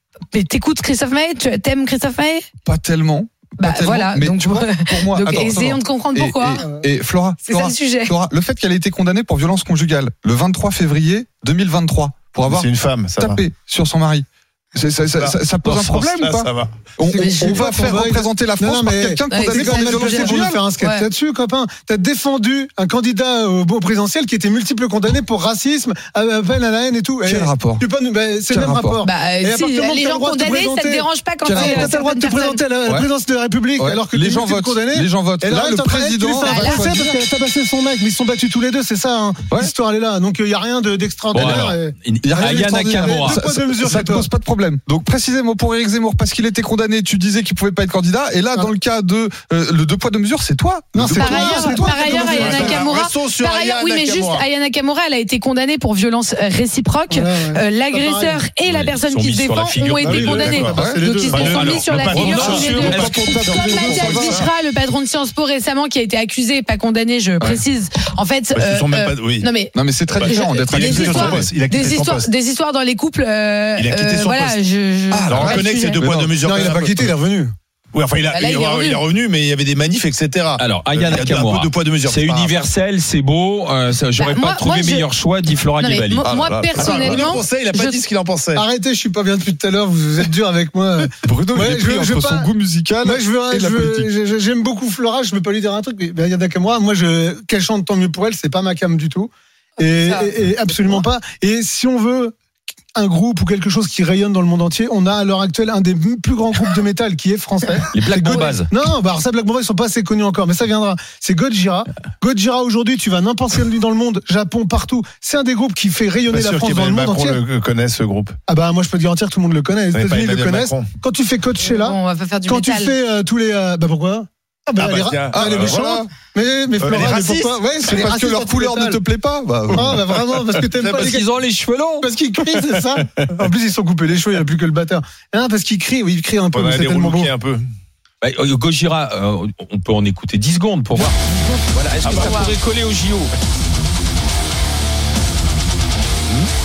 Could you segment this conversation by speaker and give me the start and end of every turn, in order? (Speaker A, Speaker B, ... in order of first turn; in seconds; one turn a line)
Speaker A: 0.3-2.4
Speaker B: 2.6-20.6
Speaker A: 3.6-6.7
Speaker A: 7.5-8.1
Speaker C: 12.5-13.4
Speaker C: 15.2-16.9
Speaker D: 17.0-44.3
Speaker A: 17.2-17.6
Speaker A: 19.3-21.1
Speaker B: 27.2-27.8
Speaker B: 28.5-29.0
Speaker A: 29.0-32.6
Speaker B: 31.4-31.9
Speaker B: 33.8-37.2
Speaker A: 36.5-36.9
Speaker E: 41.3-43.4
Speaker B: 42.2-52.0
Speaker D: 50.9-52.8
Speaker A: 51.1-76.0
Speaker C: 51.9-54.5
Speaker D: 57.1-58.4
Speaker E: 58.7-60.6
Speaker C: 60.0-64.5
Speaker D: 60.3-61.4
Speaker B: 60.7-61.0
Speaker E: 61.3-63.2
Speaker B: 62.8-64.4
Speaker C: 68.5-69.5
Speaker B: 69.7-71.5
Speaker C: 70.1-72.3
Speaker C: 73.8-74.6
Speaker B: 75.1-76.9
Speaker C: 75.3-77.0
Speaker D: 76.4-77.5
Speaker C: 77.9-82.5
Speaker A: 78.3-79.0
Speaker E: 80.6-86.2
Speaker A: 84.2-85.1
Speaker A: 85.8-88.0
Speaker B: 86.2-87.3
Speaker C: 86.8-88.6
Speaker D: 88.5-92.5
Speaker B: 91.2-94.1
Speaker D: 93.0-102.3
Speaker A: 99.8-101.0
Speaker D: 102.9-117.4
Speaker E: 107.9-108.7
Speaker C: 116.3-118.4
Speaker D: 118.5-129.0
Speaker C: 119.9-120.9
Speaker A: 121.6-123.0
Speaker C: 124.8-126.0
Speaker B: 125.3-126.1
Speaker C: 126.8-127.9
Speaker B: 127.8-130.1
Speaker C: 129.7-130.0
Speaker D: 129.7-131.3
Speaker E: 130.8-132.1
Speaker D: 132.0-137.3
Speaker C: 136.5-137.7
Speaker E: 138.2-143.3
Speaker C: 142.0-142.3
Speaker A: 142.1-142.6